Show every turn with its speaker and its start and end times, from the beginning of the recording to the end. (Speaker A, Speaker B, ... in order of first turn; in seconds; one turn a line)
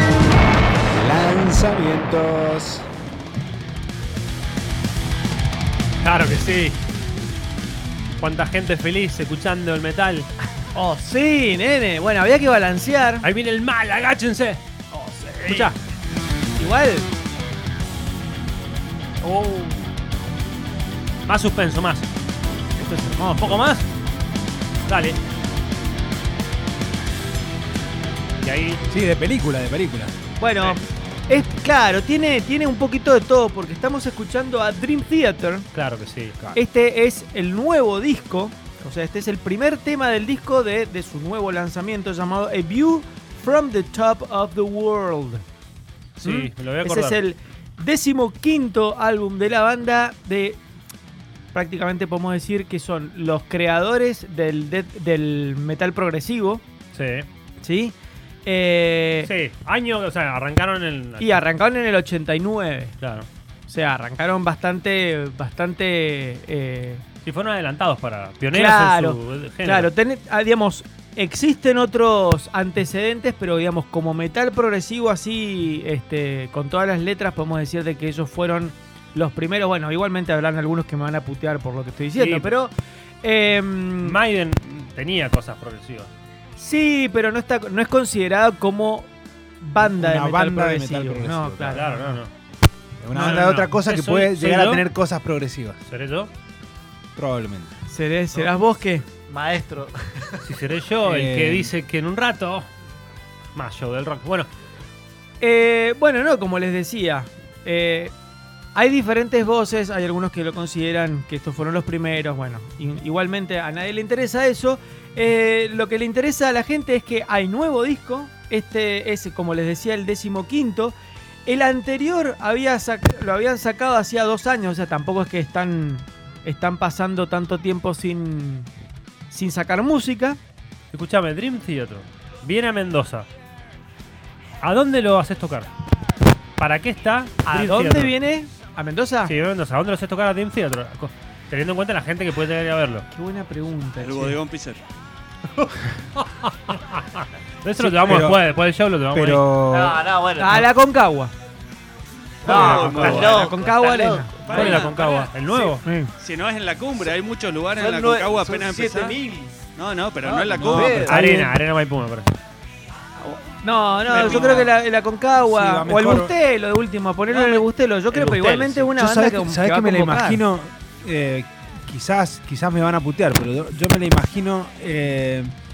Speaker A: 0.9-2.9
Speaker B: 6.0-6.8
Speaker B: 8.2-10.3
Speaker C: 10.7-13.3
Speaker B: 13.2-14.6
Speaker C: 14.9-15.7
Speaker B: 15.4-15.8
Speaker C: 16.6-17.1
Speaker B: 19.2-19.7
Speaker B: 21.3-22.1
Speaker C: 22.8-23.7
Speaker B: 23.4-23.9
Speaker B: 24.9-25.2
Speaker B: 28.4-28.8
Speaker A: 28.9-30.2
Speaker C: 30.4-35.7
Speaker B: 35.7-36.4
Speaker C: 36.5-45.4
Speaker B: 46.2-47.2
Speaker C: 46.2-50.6
Speaker C: 51.5-56.6
Speaker B: 56.9-57.3
Speaker C: 57.6-57.9
Speaker C: 58.5-59.3
Speaker B: 59.2-61.4
Speaker C: 61.2-63.0
Speaker B: 63.0-63.3
Speaker C: 63.7-67.0
Speaker B: 67.2-69.9
Speaker C: 68.5-84.2
Speaker B: 82.2-82.6
Speaker B: 84.0-86.1
Speaker C: 86.6-89.1
Speaker C: 89.6-92.2
Speaker A: 89.8-91.9
Speaker B: 91.7-92.3
Speaker A: 93.0-95.8
Speaker B: 93.1-94.9
Speaker B: 95.9-96.3
Speaker A: 97.2-97.7
Speaker C: 97.9-99.0
Speaker D: 99.3-100.4
Speaker B: 100.4-102.7
Speaker A: 101.0-101.7
Speaker B: 103.5-104.5
Speaker C: 105.4-108.1
Speaker C: 108.8-121.0
Speaker C: 121.5-128.7
Speaker C: 129.3-130.4
Speaker B: 130.9-133.3
Speaker B: 134.6-135.7
Speaker B: 136.6-138.1
Speaker C: 137.4-139.3
Speaker B: 139.3-143.1
Speaker C: 143.1-144.4
Speaker E: 144.0-144.8
Speaker B: 145.6-149.5
Speaker A: 147.9-148.4
Speaker A: 149.1-150.0
Speaker D: 149.7-150.7
Speaker C: 150.4-151.3
Speaker D: 152.4-154.9
Speaker B: 152.4-153.4
Speaker E: 152.4-153.4
Speaker C: 152.9-154.9
Speaker E: 154.4-155.3
Speaker B: 154.5-155.8
Speaker C: 155.8-156.1
Speaker E: 156.2-159.2
Speaker D: 157.7-159.6
Speaker E: 159.8-161.2
Speaker D: 160.2-161.2
Speaker A: 160.5-161.6
Speaker B: 161.0-162.3
Speaker C: 163.2-170.4
Speaker E: 164.1-164.7
Speaker A: 165.5-166.3
Speaker D: 168.1-168.9
Speaker A: 168.9-175.5